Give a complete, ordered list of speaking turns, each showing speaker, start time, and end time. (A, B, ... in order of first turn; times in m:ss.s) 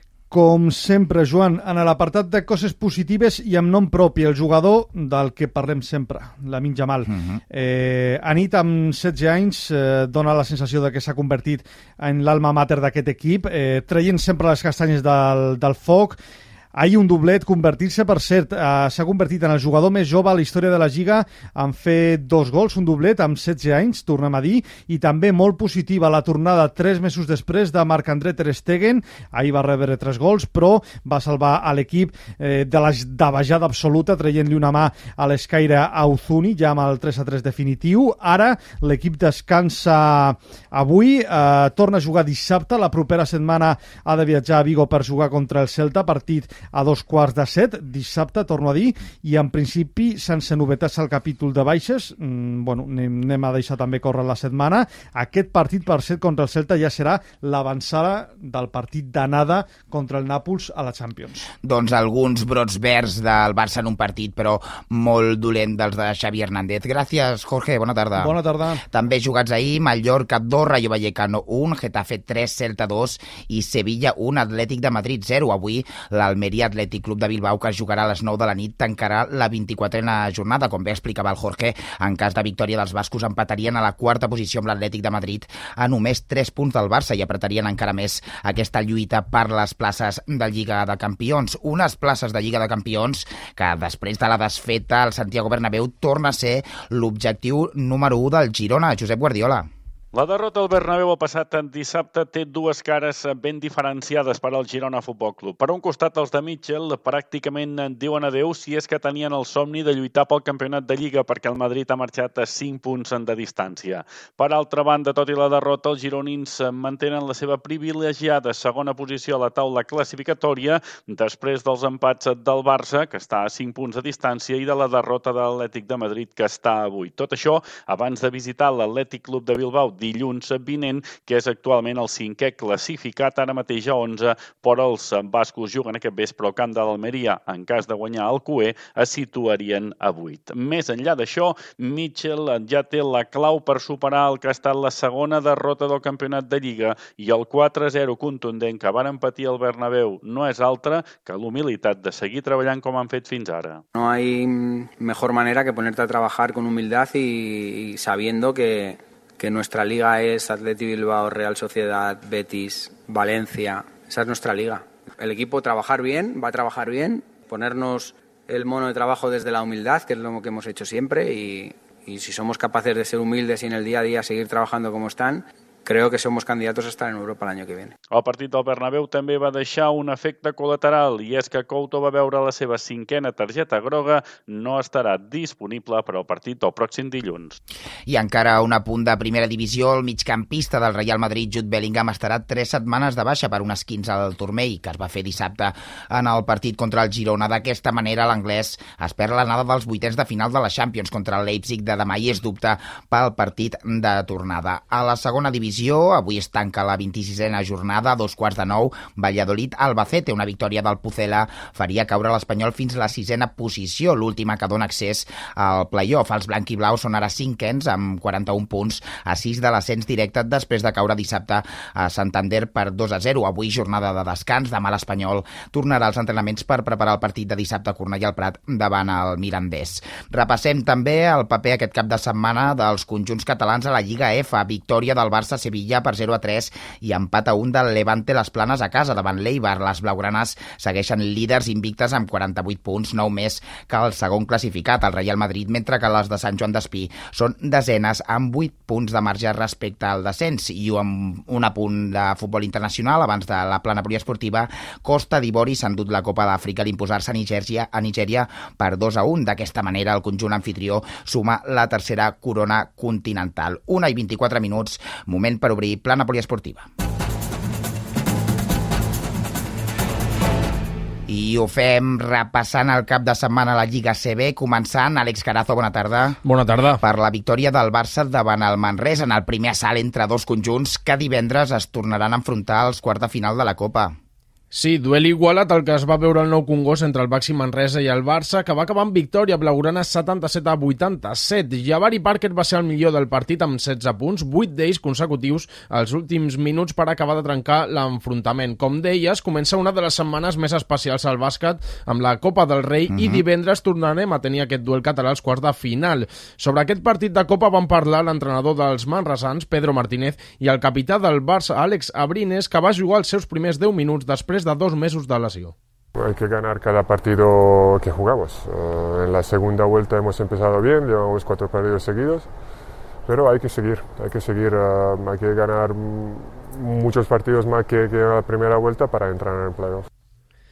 0:00.3-0:16.2 A
0:16.8-1:01.5 A
1:01.6-1:08.4 B
1:08.2-1:08.8 A
1:08.9-1:39.7 B
1:40.1-2:33.8 C
2:33.9-2:57.9 D
2:58.1-3:07.6 C
3:08.1-4:26.9 B
4:31.3-4:36.4 B
4:36.4-4:37.0 E
4:37.0-4:44.1 B
4:44.7-5:15.7 E
5:03.1-5:03.4 B
5:16.1-5:22.5 F
5:23.2-5:30.1 F